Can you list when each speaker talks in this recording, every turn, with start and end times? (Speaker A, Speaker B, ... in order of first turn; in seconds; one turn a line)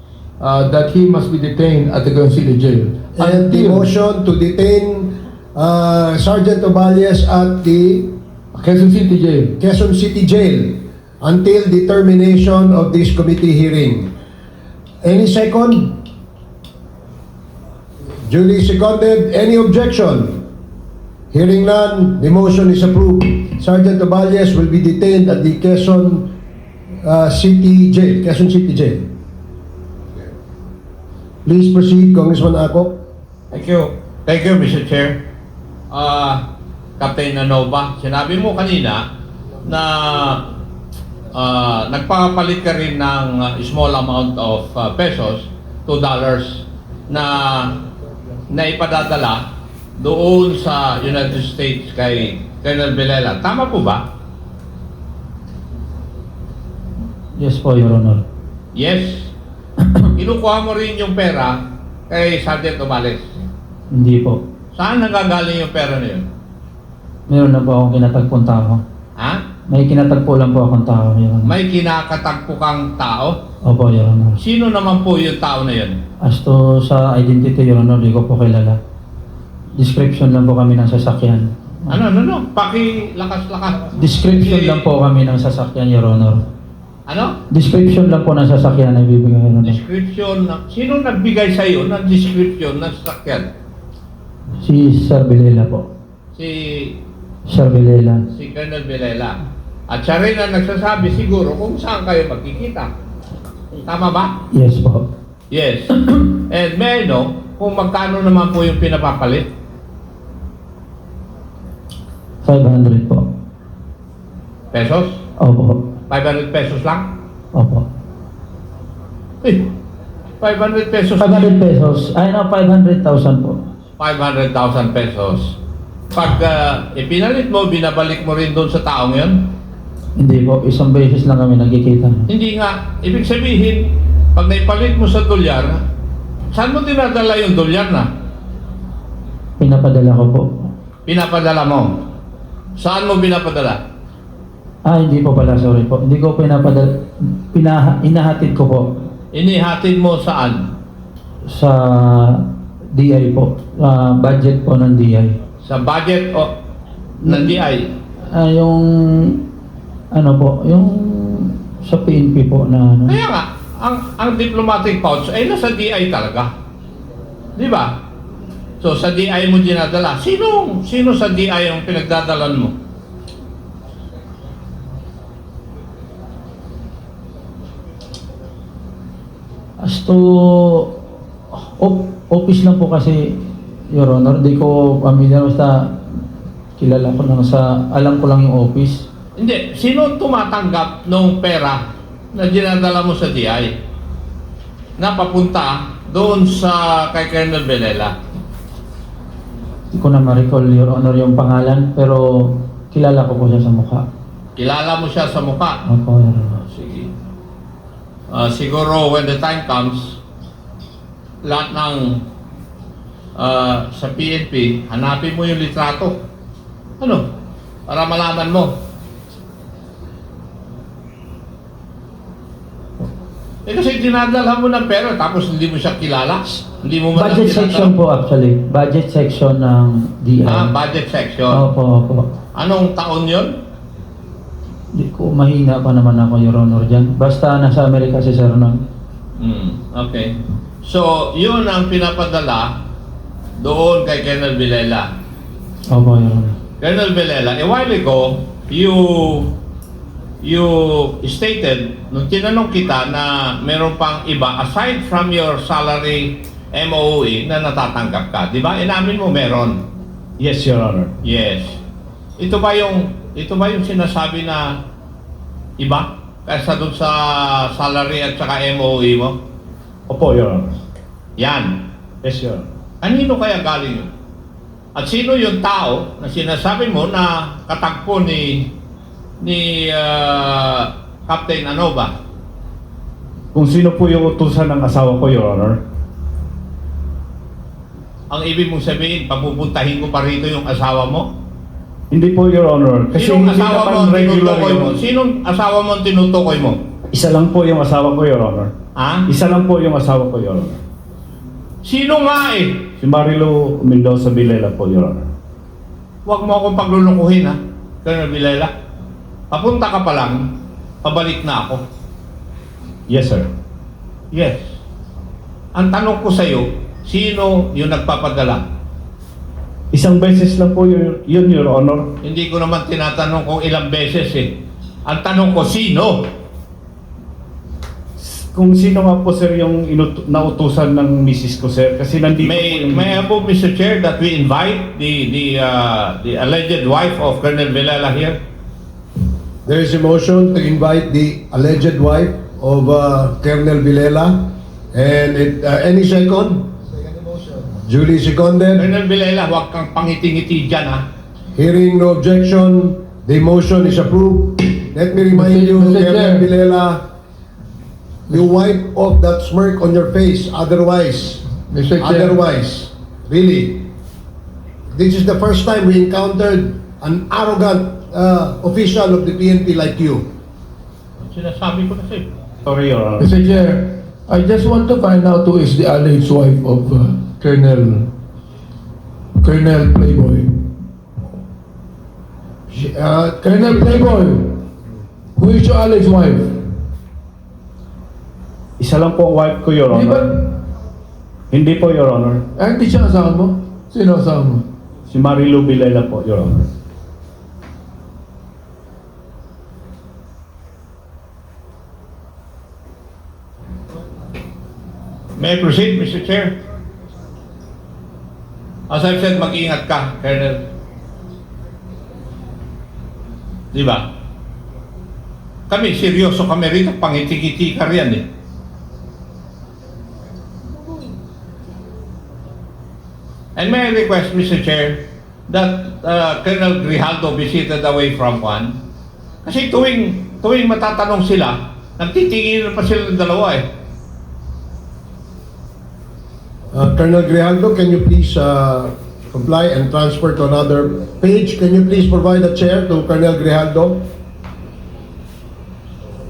Speaker A: 0.4-3.9
Speaker B: 3.2-8.2
Speaker A: 8.5-9.6
Speaker B: 9.6-14.1
Speaker B: 15.0-16.0
Speaker B: 18.2-20.4
Speaker B: 21.3-26.3
Speaker B: 27.0-29.1
Speaker B: 31.4-33.0
Speaker C: 33.5-35.2
Speaker C: 35.9-36.5
Speaker C: 37.0-39.0
Speaker C: 39.6-40.5
Speaker C: 41.3-47.7
Speaker C: 48.5-54.0
Speaker D: 57.4-58.2
Speaker C: 58.7-59.3
Speaker D: 59.8-60.0
Speaker C: 60.1-63.3
Speaker D: 63.9-64.4
Speaker C: 64.8-66.2
Speaker D: 67.3-68.8
Speaker D: 69.7-71.5
Speaker C: 71.5-73.4
Speaker D: 73.6-74.4
Speaker C: 74.4-76.0
Speaker D: 76.2-78.8
Speaker D: 79.8-82.0
Speaker C: 81.9-84.8
Speaker D: 84.0-86.4
Speaker C: 87.1-87.4
Speaker D: 87.5-89.8
Speaker C: 89.6-93.5
Speaker D: 94.6-95.9
Speaker C: 96.3-97.0
Speaker D: 97.5-98.2
Speaker C: 98.3-99.4
Speaker C: 99.9-102.9
Speaker C: 103.8-104.4
Speaker D: 104.5-105.1
Speaker C: 105.5-109.5
Speaker D: 112.4-113.3
Speaker C: 114.7-115.2
Speaker D: 115.4-115.9
Speaker C: 116.1-117.1
Speaker D: 117.5-117.8
Speaker C: 119.4-119.7
Speaker C: 120.4-121.5
Speaker D: 121.2-123.6
Speaker C: 124.0-125.6
Speaker C: 126.1-129.5
Speaker D: 130.2-132.2
Speaker C: 132.3-135.8
Speaker C: 136.5-138.1
Speaker D: 139.6-140.7
Speaker C: 141.1-142.0
Speaker C: 142.8-143.8
Speaker D: 144.8-149.0
Speaker C: 149.3-150.6
Speaker D: 151.5-155.4
Speaker C: 155.6-156.5
Speaker C: 157.2-157.9
Speaker D: 157.2-157.6
Speaker D: 158.3-159.4
Speaker D: 160.1-163.2
Speaker C: 163.1-166.5
Speaker C: 167.6-168.0
Speaker C: 168.8-172.7
Speaker D: 179.8-181.0
Speaker D: 181.8-186.0
Speaker D: 186.8-189.1
Speaker C: 189.4-193.7
Speaker C: 195.0-198.1
Speaker D: 199.9-204.0
Speaker C: 204.6-205.8
Speaker D: 205.8-206.6
Speaker C: 206.6-207.1
Speaker C: 208.3-210.2
Speaker C: 211.4-212.2
Speaker C: 213.4-216.2
Speaker C: 217.0-217.2
Speaker C: 217.9-218.8
Speaker C: 223.7-227.9
Speaker D: 227.1-230.7
Speaker C: 230.4-231.6
Speaker D: 231.5-232.3
Speaker C: 232.5-233.6
Speaker D: 234.9-238.8
Speaker C: 239.4-240.3
Speaker C: 240.8-242.8
Speaker C: 243.6-245.1
Speaker D: 245.9-246.6
Speaker C: 246.8-249.5
Speaker C: 250.4-259.8
Speaker E: 260.4-261.1
Speaker C: 261.2-261.8
Speaker C: 262.4-264.8
Speaker C: 265.8-269.4
Speaker E: 270.1-270.7
Speaker C: 271.4-271.8
Speaker E: 272.2-272.7
Speaker C: 273.0-274.1
Speaker C: 274.9-278.7
Speaker C: 279.4-282.1
Speaker E: 283.5-285.8
Speaker C: 288.3-291.3
Speaker E: 292.1-294.9
Speaker C: 293.1-296.8
Speaker E: 297.1-298.7
Speaker C: 298.9-299.3
Speaker E: 299.3-300.8
Speaker C: 301.8-302.9
Speaker E: 303.0-305.2
Speaker C: 306.2-308.7
Speaker C: 309.5-310.5
Speaker C: 311.0-311.8
Speaker E: 313.1-313.5
Speaker C: 314.3-314.8
Speaker C: 315.7-318.6
Speaker E: 319.9-322.1
Speaker C: 322.2-326.3
Speaker E: 328.2-333.2
Speaker C: 332.4-338.4
Speaker B: 339.6-346.8
Speaker B: 347.3-348.9
Speaker C: 348.8-351.1
Speaker B: 351.5-357.0
Speaker A: 355.1-356.5
Speaker B: 358.3-361.5
Speaker A: 361.7-362.4
Speaker B: 362.0-363.9
Speaker B: 364.9-370.2
Speaker C: 371.2-372.3
Speaker E: 372.6-373.3
Speaker A: 373.2-378.1
Speaker A: 379.4-380.7
Speaker B: 382.7-384.2
Speaker A: 383.4-384.6
Speaker A: 385.4-386.7
Speaker E: 388.8-390.4
Speaker A: 389.9-390.5
Speaker E: 391.5-392.4
Speaker A: 392.6-394.6
Speaker E: 395.1-396.7
Speaker C: 405.4-406.6
Speaker C: 408.9-410.6
Speaker C: 413.7-414.1
Speaker C: 415.7-418.2
Speaker C: 423.6-428.8
Speaker C: 429.4-433.6
Speaker B: 436.7-444.1